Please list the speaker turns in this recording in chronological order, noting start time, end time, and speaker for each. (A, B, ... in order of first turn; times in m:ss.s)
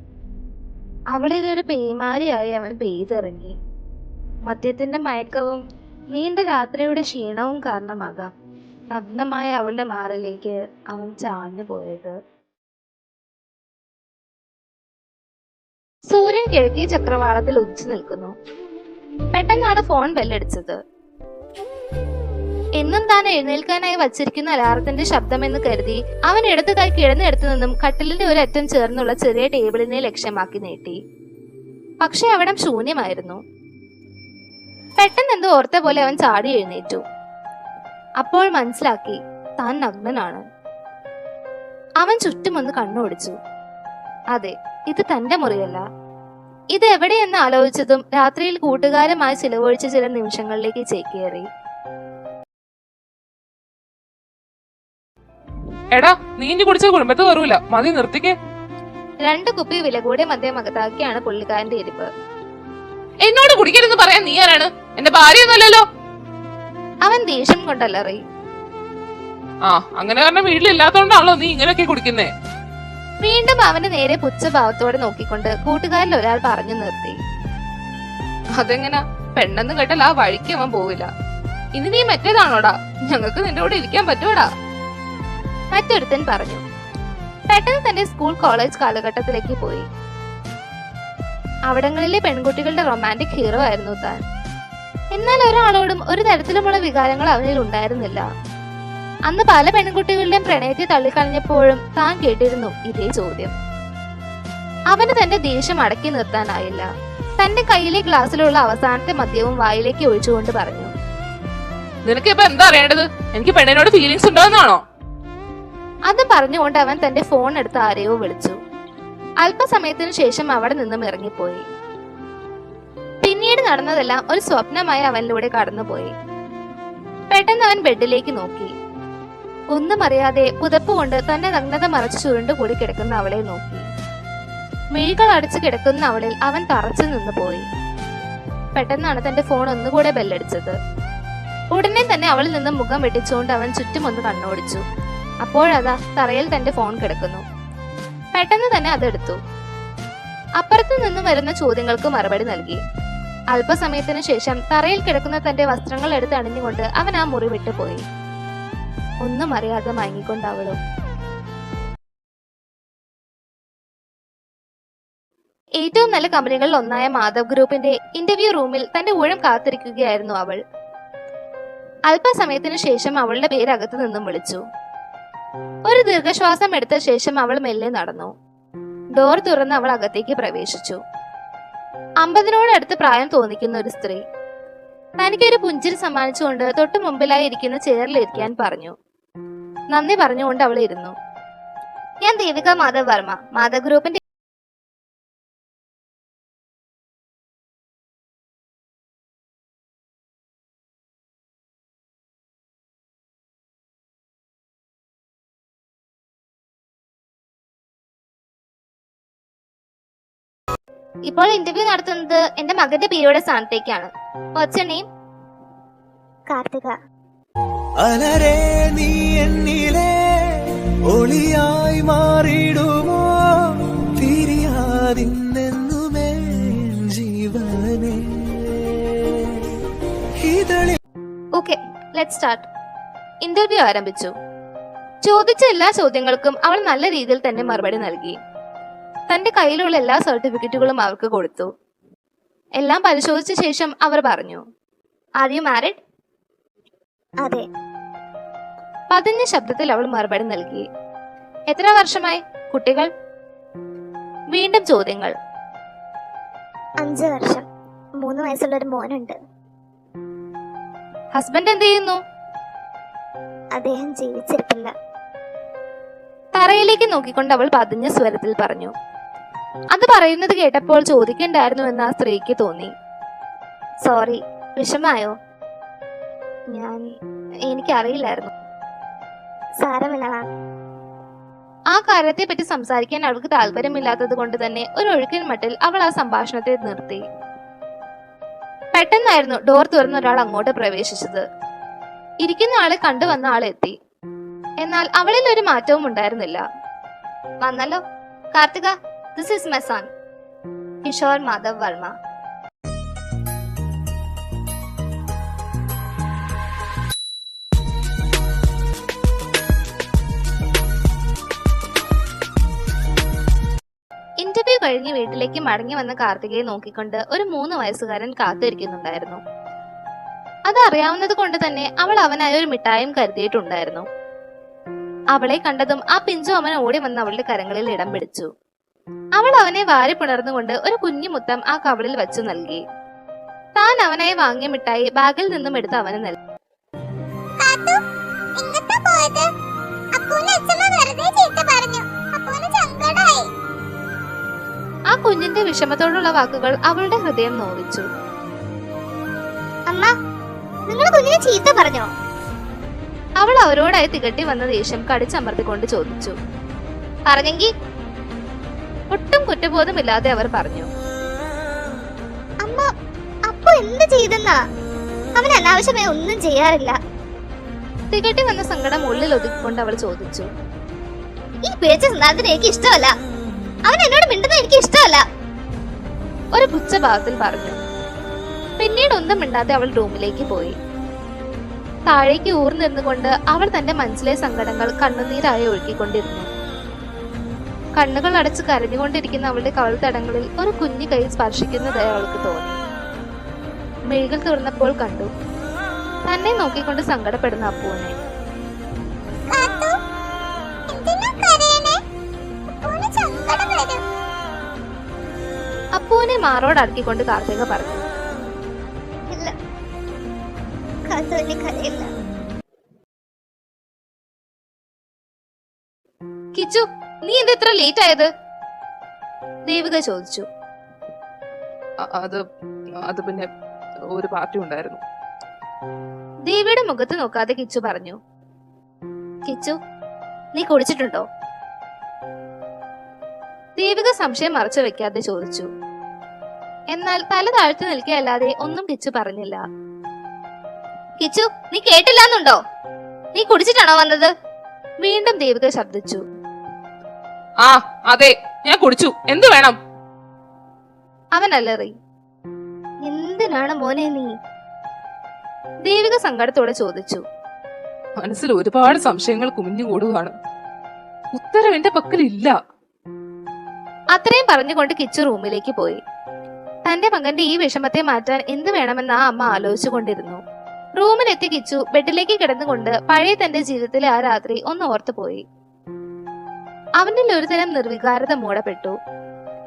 0:01.1-0:03.6 A
0:04.4-0:08.3 A
0:08.9-0:12.2 A
0:16.1-0:18.3 A
0:19.3-0:20.8 A
0:22.8-0:31.0 A
0:32.0-0:33.4 A
0:35.0-0:37.0 A
0:38.2-0:40.4 A
0:42.0-0:43.4 A
0:44.3-0:45.8 A
0:46.7-0:51.5 A
0:55.9-0:58.4 B
0:59.2-1:02.1 A
1:03.2-1:05.8 B
1:07.0-1:08.2 A
1:09.6-1:12.3 B
1:13.2-1:17.2 A
1:18.6-1:21.1 A
1:21.8-1:24.5 A
1:25.7-1:26.6 A
1:27.5-1:29.9 A
1:31.7-1:34.2 A
1:35.1-1:38.3 A
1:39.3-1:43.5 A
1:44.9-1:50.9 A
1:52.0-1:54.8 B
1:56.1-1:58.6 A
1:59.4-2:01.6 A
2:03.2-2:06.1 A
2:07.3-2:08.7 A
2:09.7-2:13.8 A
2:14.9-2:17.7 A
2:18.7-2:20.8 A
2:21.7-2:24.8 A
2:25.4-2:27.4 A
2:28.3-2:29.4 A
2:30.6-2:32.8 A
2:33.5-2:38.0 A
2:39.2-2:40.8 A
2:45.8-2:50.6 A
2:52.1-2:54.6 A
2:55.8-2:58.3 A
2:59.1-3:01.0 A
3:02.2-3:04.2 A
3:05.2-3:08.9 A
3:09.9-3:11.1 A
3:12.2-3:14.2 A
3:31.3-3:35.0 A
3:36.5-3:36.9 C
3:38.0-3:49.5 D
3:50.4-3:51.0 D
3:51.6-3:52.7 A
3:53.4-3:54.3 A
3:55.2-3:58.4 A
3:59.3-4:01.7 A
4:02.8-4:04.6 A
4:05.4-4:06.0 A
4:07.4-4:07.7 C
4:09.1-4:10.8 A
4:11.7-4:13.1 A
4:14.5-4:15.3 A
4:17.0-4:17.6 C
4:18.2-4:19.4 C
4:21.3-4:22.2 A
4:23.7-4:24.9 C
4:26.6-4:28.9 A
4:29.9-4:32.9 A
4:34.0-4:35.4 A
4:36.7-4:37.0 A
4:37.7-4:38.5 A
4:39.8-4:40.5 C
4:41.9-4:47.2 A
4:48.9-4:51.4 A
4:52.4-4:53.9 A
4:54.8-4:56.6 A
4:57.6-4:58.0 A
4:58.5-5:00.1 A
5:01.0-5:02.1 A
5:14.4-5:19.4 A
5:20.7-5:24.1 A
5:25.3-5:28.5 A
5:29.4-5:32.8 A
5:33.8-5:36.4 A
5:37.6-5:38.0 C
5:38.6-5:39.4 C
5:40.1-5:43.5 C
5:45.1-5:48.1 A
5:50.9-5:52.1 C
5:53.4-5:56.4 A
5:57.3-5:57.7 A
5:59.1-6:00.9 A
6:02.6-6:02.9 C
6:03.4-6:04.6 C
6:05.4-6:07.0 C
6:08.1-6:10.5 A
6:11.6-6:13.1 C
6:13.9-6:15.2 C
6:16.5-6:17.8 A
6:18.8-6:20.8 A
6:22.1-6:26.5 A
6:28.0-6:32.8 A
6:34.1-6:35.3 A
6:36.3-6:38.1 A
6:39.5-6:39.9 C
6:40.9-6:41.9 C
6:42.8-6:44.0 C
6:45.9-6:48.0 A
6:51.1-6:52.1 C
6:56.5-6:58.3 A
6:59.7-7:00.4 A
7:02.0-7:02.4 B
7:03.0-7:03.5 B
7:04.1-7:05.0 B
7:06.5-7:08.2 A
7:09.4-7:09.8 A
7:10.5-7:11.2 A
7:13.8-7:15.7 A
7:16.9-7:19.6 A
7:21.2-7:22.6 A
7:23.3-7:24.3 A
7:25.0-7:26.2 A
7:27.6-7:29.8 B
7:31.3-7:31.9 A
7:33.0-7:34.3 A
7:35.8-7:37.2 A
7:38.2-7:40.3 B
7:41.3-7:42.6 B
7:44.1-7:46.0 A
7:46.8-7:50.4 A
7:51.0-7:55.4 A
7:57.0-7:59.0 A